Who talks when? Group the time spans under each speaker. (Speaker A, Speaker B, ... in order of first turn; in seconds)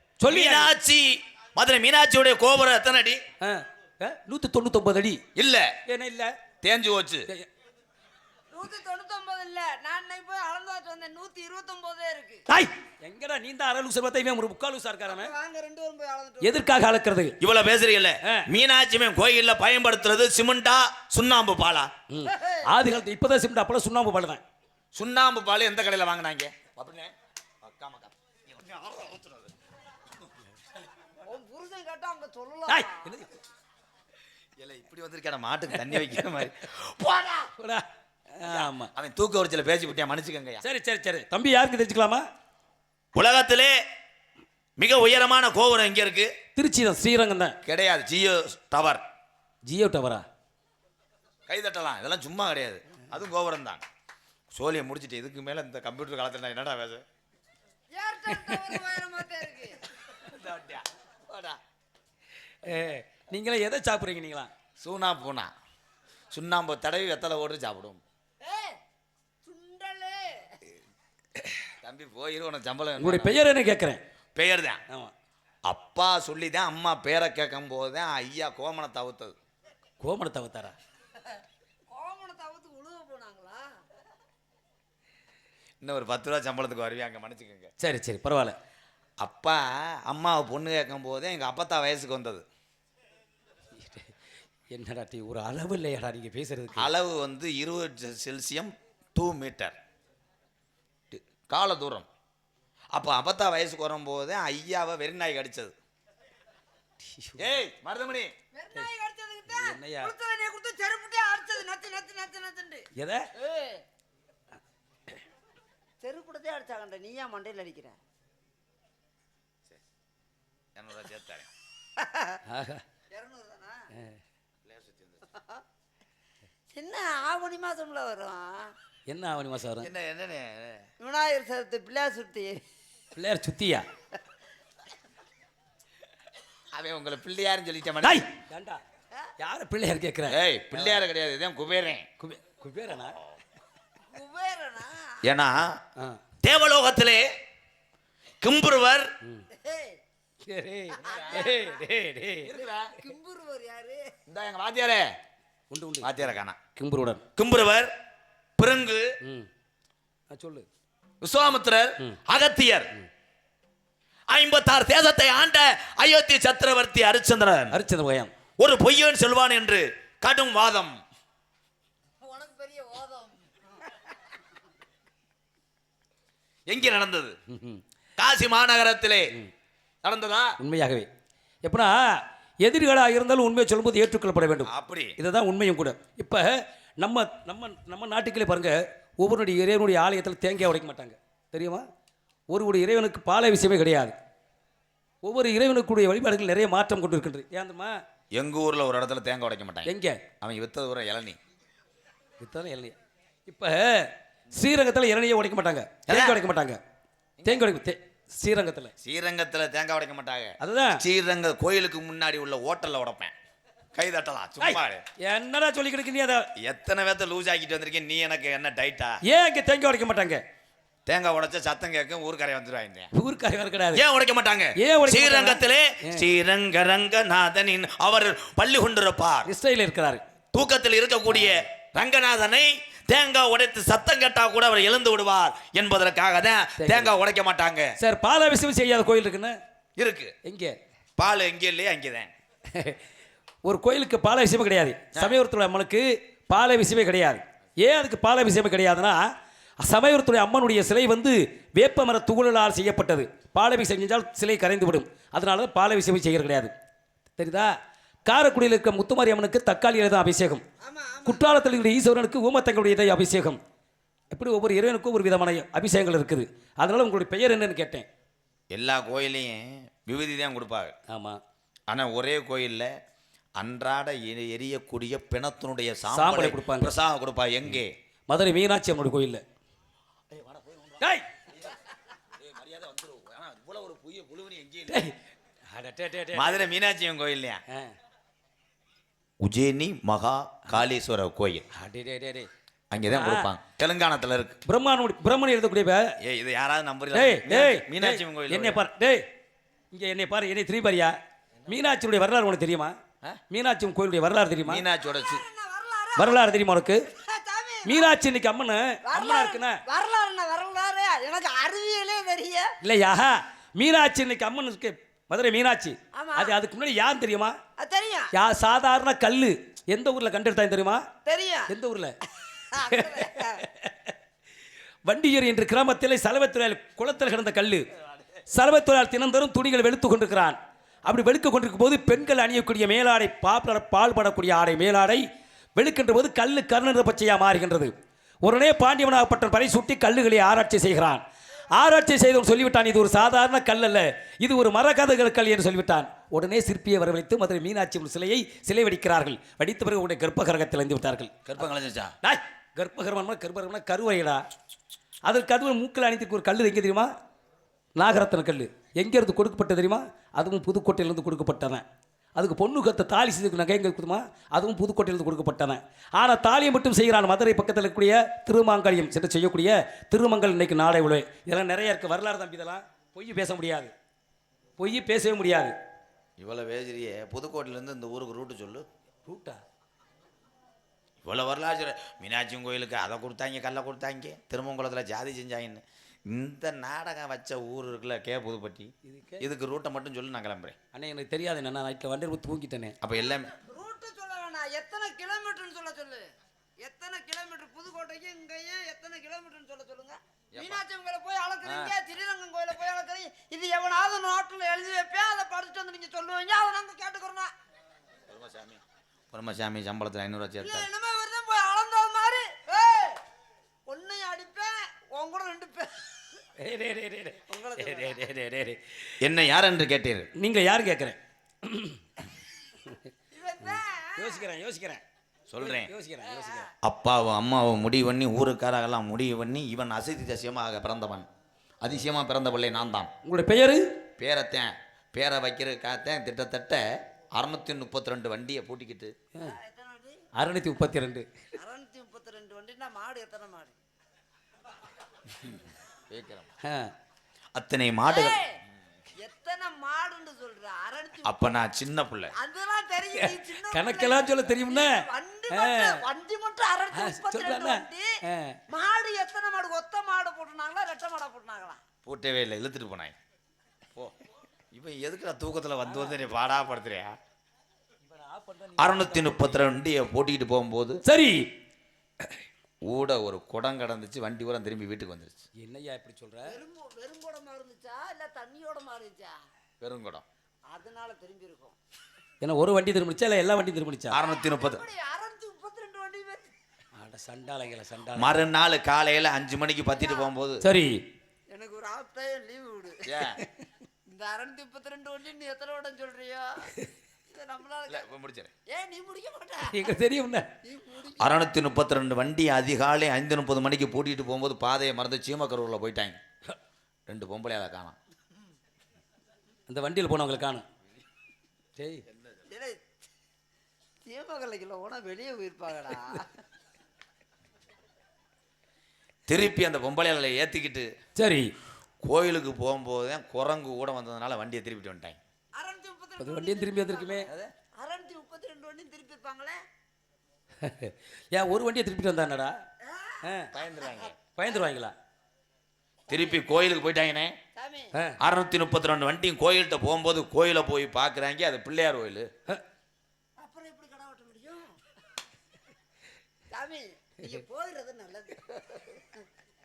Speaker A: 0.2-0.7, 3.4-5.2, 5.9-6.3, 12.5-15.3, 16.4-17.4, 22.1-24.4, 32.7-33.3, 35.8-36.5, 37.6-38.9, 40.6-42.2, 46.6-47.6, 49.7-50.2, 58.3-58.7, 62.6-64.5, 73.0-74.0, 74.9-75.1, 80.0-80.8, 87.8-88.6, 93.8-94.1, 94.7-96.9, 107.1-107.5, 109.5-110.1, 113.0-113.3, 122.5-122.8, 129.1-129.9, 133.1-133.8, 138.0-138.8, 139.4-141.0, 142.2-143.2, 150.4-152.5, 155.7-157.2, 159.2-159.5, 160.3-160.7, 167.7-168.3, 177.5-177.8, 180.6-181.1, 181.7-191.9, 192.5-194.2, 195.2-197.9, 199.9-200.2, 202.4-203.0, 203.5-206.8, 207.5-208.9, 210.6-211.0, 214.6-216.5, 219.2-220.4, 223.1-224.0, 224.8-226.2, 229.5-230.2, 236.8-237.1, 238.0-239.6, 240.5-240.7, 242.7-243.0, 243.7-249.2, 249.8-256.7, 257.4-257.7, 258.3-260.6, 261.2-263.6, 264.3-268.1, 271.1-271.4, 276.1-276.9, 277.7-279.4, 281.0-281.3, 284.9-285.2, 285.7-286.7, 287.7-287.9, 291.7-292.5, 293.1-293.5, 294.7-296.1, 297.1-299.2, 299.9-303.0, 303.5-304.8, 306.2-307.1, 307.9-309.8, 312.8-317.6, 318.3-321.1, 321.7-322.1, 322.9-324.1, 325.1-327.9, 328.5-335.2, 335.8-337.9, 338.4-341.2, 341.7-351.3, 352.2-354.4, 355.3-357.1, 358.0-361.8, 362.4-373.9, 374.8-375.8, 379.3-379.6, 389.1-389.4, 390.9-392.9, 416.6-419.1, 420.4-422.0, 424.2-425.0, 425.6-426.7, 433.3-433.8, 440.4-441.3, 446.6-446.9, 453.1-456.0, 456.9-458.6, 465.8-466.3, 468.1-469.7, 471.1-471.5, 475.6-476.6, 482.4-484.2, 487.0-488.4, 490.6-491.0, 493.4-493.6, 499.7-500.5, 509.7-510.6, 511.8-512.0, 521.2-521.5, 526.2-527.3, 530.6-532.6, 533.2-533.5, 534.4-534.9
Speaker B: 0.3-3.2, 5.4-5.8, 6.6-7.3, 17.4-21.9, 24.9-29.5, 34.6-37.5, 38.4-40.6, 43.1-43.8, 44.8-46.3, 47.6-49.0, 51.5-53.9, 54.5-57.0, 60.2-61.6, 64.8-65.5, 66.3-68.0, 71.8-73.4, 74.4-74.8, 75.7-79.4, 85.8-87.7, 89.2-92.5, 96.7-99.8, 101.1-102.1, 102.9-105.7, 107.4-108.3, 120.8-121.5, 124.7-125.2, 129.8-130.9, 136.7-138.3, 140.3-142.1, 145.2-145.8, 146.4-147.3, 148.4-149.1, 151.0-151.5, 152.4-153.0, 154.3-155.1, 156.0-156.6, 157.4-157.9, 158.6-159.1, 161.2-162.9, 164.3-167.8, 168.6-171.0, 176.7-177.4, 178.2-179.3, 180.0-180.6, 184.7-185.2, 198.4-201.4, 206.1-206.4, 207.4-207.8, 209.0-213.3, 213.9-215.0, 216.6-219.2, 221.1-223.1, 223.9-229.5, 230.5-237.9, 240.0-240.3, 241.2-242.3, 268.7-270.9, 271.9-272.9, 273.6-277.9, 280.3-285.1, 286.3-287.6, 289.4-291.7, 292.9-294.6, 296.2-298.8, 304.7-305.4, 351.5-352.1, 376.4-378.9, 381.2-390.8, 393.0-393.5, 400.5-400.8, 401.6-401.9, 408.3-408.8, 409.3-410.9, 419.2-420.3, 425.5-425.9, 426.8-431.3, 431.8-433.1, 434.2-439.1, 446.1-446.5, 447.5-448.4, 451.2-452.3, 462.1-463.1, 464.7-467.1, 468.8-471.0, 472.9-475.4, 479.8-480.2, 484.1-484.8, 488.1-490.6, 493.1-493.4, 497.9-498.5, 501.2-506.2, 507.1-508.0, 519.3-520.9, 522.0-525.2, 527.3-527.5, 533.5-534.2, 536.1-537.4, 538.2-542.3
Speaker C: 8.5-12.4, 15.1-16.6, 22.2-22.8, 31.2-33.1, 57.9-59.8, 68.4-68.8, 69.4-70.6, 81.9-83.7, 108.5-113.8, 116.0-118.0, 122.0-122.4, 123.1-123.8, 125.3-125.6, 126.7-128.7, 131.0-132.6, 144.1-145.2, 149.5-150.0, 150.9-151.9, 153.0-154.1, 172.2-174.2, 260.8-261.5, 305.1-306.4, 307.1-308.1, 309.1-312.7, 316.1-316.6, 317.8-318.3, 321.2-321.7, 322.6-323.6, 393.4-396.3, 396.8-407.5, 410.6-413.2, 413.9-416.0, 417.5-418.3, 423.3-424.5, 439.4-440.2, 441.6-443.8, 448.1-448.6, 449.2-451.4, 452.3-458.1, 458.7-461.8, 476.4-479.4, 480.7-481.8, 484.2-486.5, 490.0-490.3, 491.5-493.1, 494.1-496.7, 497.3-498.1, 498.7-499.9, 500.6-501.3, 512.5-512.8, 514.1-516.3, 525.5-529.6, 532.8-533.3, 533.8-534.1, 536.1-536.4, 537.6-538.0, 543.4-544.7, 546.5-549.2